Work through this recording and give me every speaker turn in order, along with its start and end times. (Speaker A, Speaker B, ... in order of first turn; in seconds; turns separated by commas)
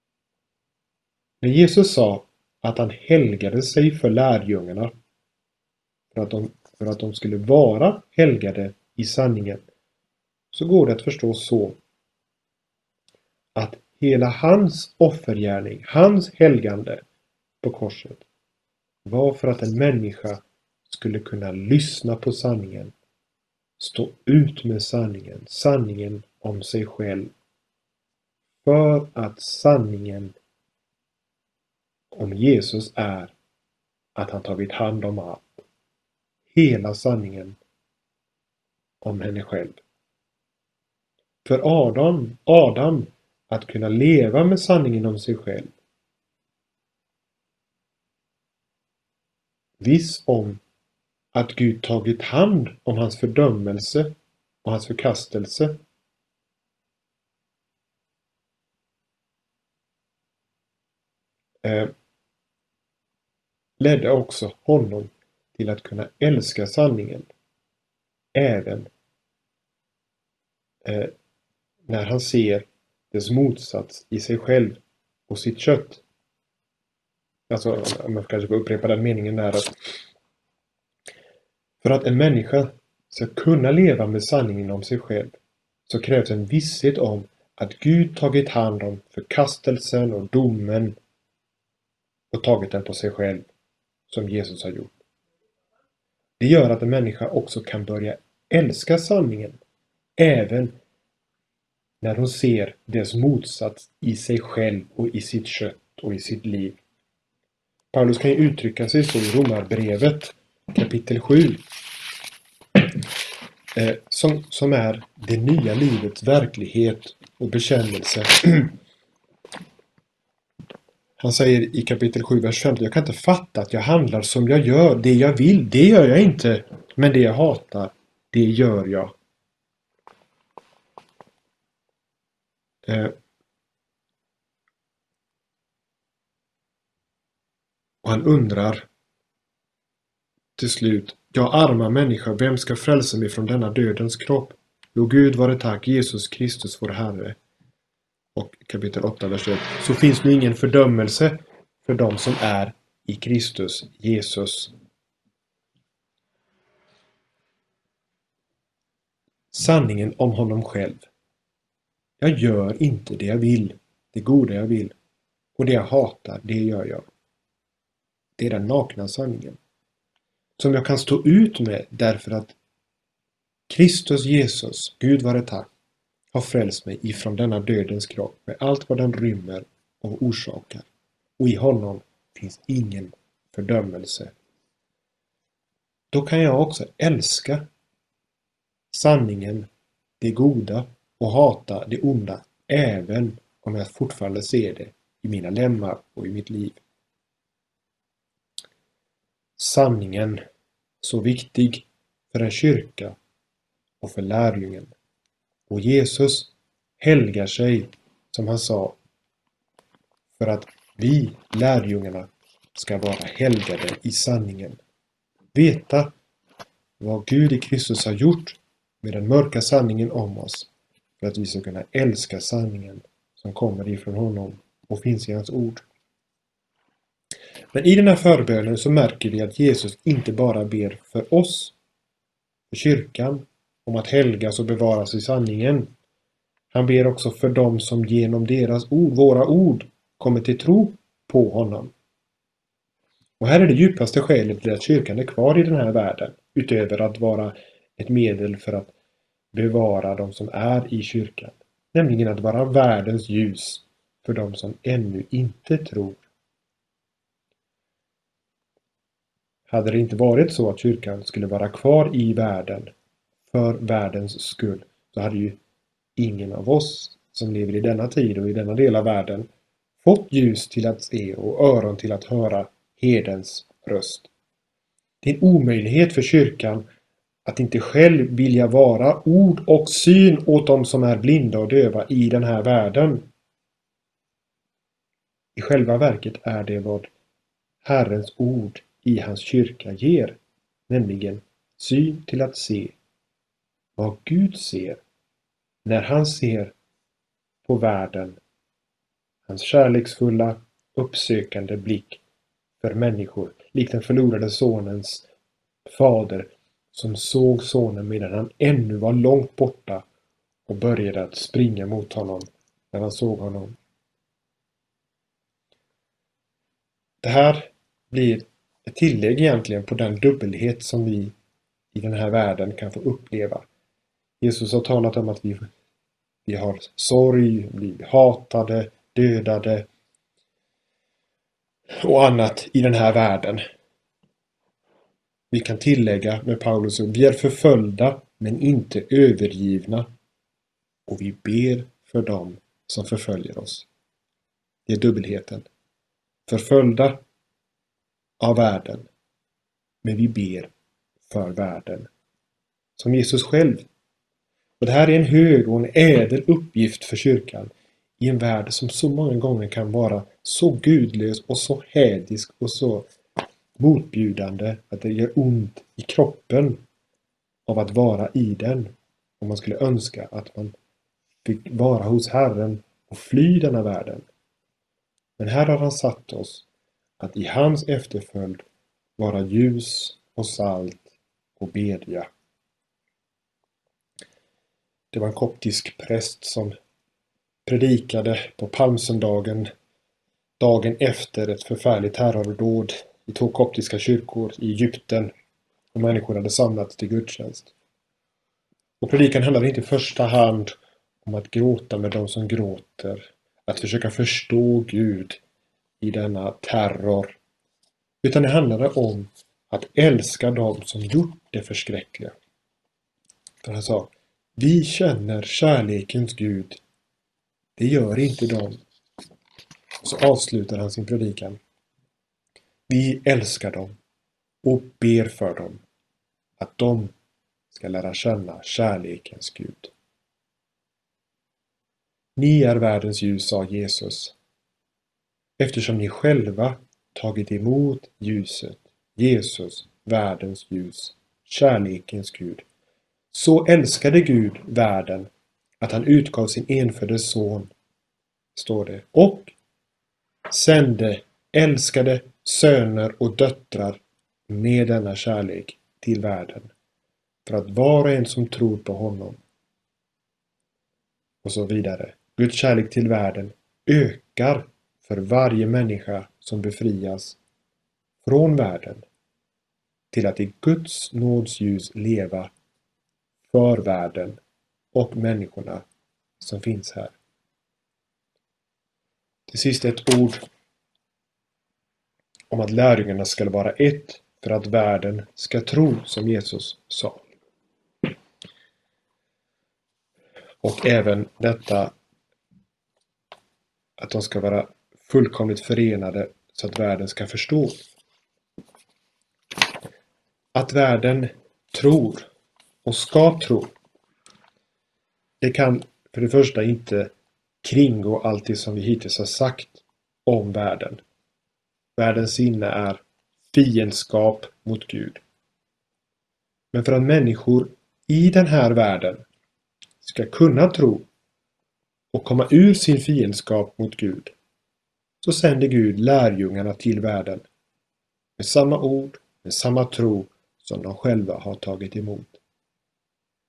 Speaker A: 1.4-4.9, Speaker A: 6.1-9.6, Speaker A: 10.5-11.8, Speaker A: 13.6-17.0, Speaker A: 17.6-18.2, Speaker A: 19.1-22.9, Speaker A: 23.8-27.3, Speaker A: 28.6-30.4, Speaker A: 32.1-33.3, Speaker A: 34.1-35.6, Speaker A: 36.5-37.6, Speaker A: 39.0-39.8, Speaker A: 41.4-45.7, Speaker A: 49.8-50.6, Speaker A: 51.3-55.8, Speaker A: 61.6-61.9, Speaker A: 63.8-67.3, Speaker A: 68.3-68.9, Speaker A: 70.8-71.1, Speaker A: 71.9-76.0, Speaker A: 77.5-79.7, Speaker A: 81.8-91.0, Speaker A: 92.3-93.5, Speaker A: 94.1-95.0, Speaker A: 96.4-99.6, Speaker A: 100.2-100.8, Speaker A: 102.0-106.8, Speaker A: 107.9-111.6, Speaker A: 113.8-118.8, Speaker A: 121.2-129.2, Speaker A: 132.8-133.2, Speaker A: 138.0-138.9, Speaker A: 140.6-147.4, Speaker A: 148.3-154.7, Speaker A: 159.5-161.1, Speaker A: 162.2-164.9, Speaker A: 165.6-167.1, Speaker A: 168.4-169.6, Speaker A: 170.6-172.6, Speaker A: 173.7-175.7, Speaker A: 176.3-180.9, Speaker A: 181.4-184.3, Speaker A: 186.1-187.7, Speaker A: 188.9-189.7, Speaker A: 190.2-196.8, Speaker A: 199.6-200.4, Speaker A: 201.0-203.2, Speaker A: 204.0-204.9, Speaker A: 205.7-209.0, Speaker A: 210.3-214.8, Speaker A: 215.5-216.1, Speaker A: 217.0-220.7, Speaker A: 221.2-225.8, Speaker A: 227.7-231.8, Speaker A: 232.7-235.9, Speaker A: 236.7-241.9, Speaker A: 243.4-248.9, Speaker A: 249.5-256.2, Speaker A: 259.7-262.9, Speaker A: 263.5-265.6, Speaker A: 266.2-269.5, Speaker A: 270.0-274.3, Speaker A: 275.2-276.9, Speaker A: 277.4-283.3, Speaker A: 285.6-287.1, Speaker A: 287.8-293.0, Speaker A: 294.0-295.0, Speaker A: 295.9-296.8, Speaker A: 297.7-298.4, Speaker A: 299.5-302.2, Speaker A: 302.8-305.3, Speaker A: 305.9-310.0, Speaker A: 310.7-313.8, Speaker A: 317.2-321.4, Speaker A: 321.9-323.7, Speaker A: 324.4-325.7, Speaker A: 326.5-329.9, Speaker A: 332.0-333.6, Speaker A: 335.5-340.1, Speaker A: 341.1-343.9, Speaker A: 344.9-345.7, Speaker A: 346.5-347.2, Speaker A: 348.4-349.1, Speaker A: 350.0-350.7, Speaker A: 351.3-352.1, Speaker A: 353.0-353.9, Speaker A: 354.8-363.1, Speaker A: 363.8-366.8, Speaker A: 367.7-370.7, Speaker A: 371.4-374.3, Speaker A: 375.4-376.6, Speaker A: 377.2-378.6, Speaker A: 379.2-382.3, Speaker A: 385.1-386.7, Speaker A: 387.7-389.7, Speaker A: 390.6-395.3, Speaker A: 395.9-397.7, Speaker A: 399.0-405.4, Speaker A: 406.0-407.4, Speaker A: 408.2-412.4, Speaker A: 413.6-416.8, Speaker A: 417.8-418.8, Speaker A: 420.0-421.6, Speaker A: 422.9-424.0, Speaker A: 424.6-425.8, Speaker A: 426.6-427.1, Speaker A: 427.7-429.9, Speaker A: 432.4-434.4, Speaker A: 435.6-442.6, Speaker A: 443.3-447.7, Speaker A: 448.6-449.5, Speaker A: 450.5-456.7, Speaker A: 457.4-459.4, Speaker A: 461.4-467.4, Speaker A: 468.2-469.1, Speaker A: 470.1-472.5, Speaker A: 473.5-474.4, Speaker A: 474.9-475.9, Speaker A: 476.4-477.1, Speaker A: 479.5-480.4, Speaker A: 482.5-487.2, Speaker A: 490.6-491.9, Speaker A: 494.0-497.8, Speaker A: 500.6-502.3, Speaker A: 502.9-503.7, Speaker A: 505.4-507.1, Speaker A: 507.6-511.0, Speaker A: 512.0-513.0, Speaker A: 513.5-515.2, Speaker A: 516.7-519.2, Speaker A: 520.0-521.1, Speaker A: 522.1-524.3, Speaker A: 525.2-527.5, Speaker A: 528.4-532.4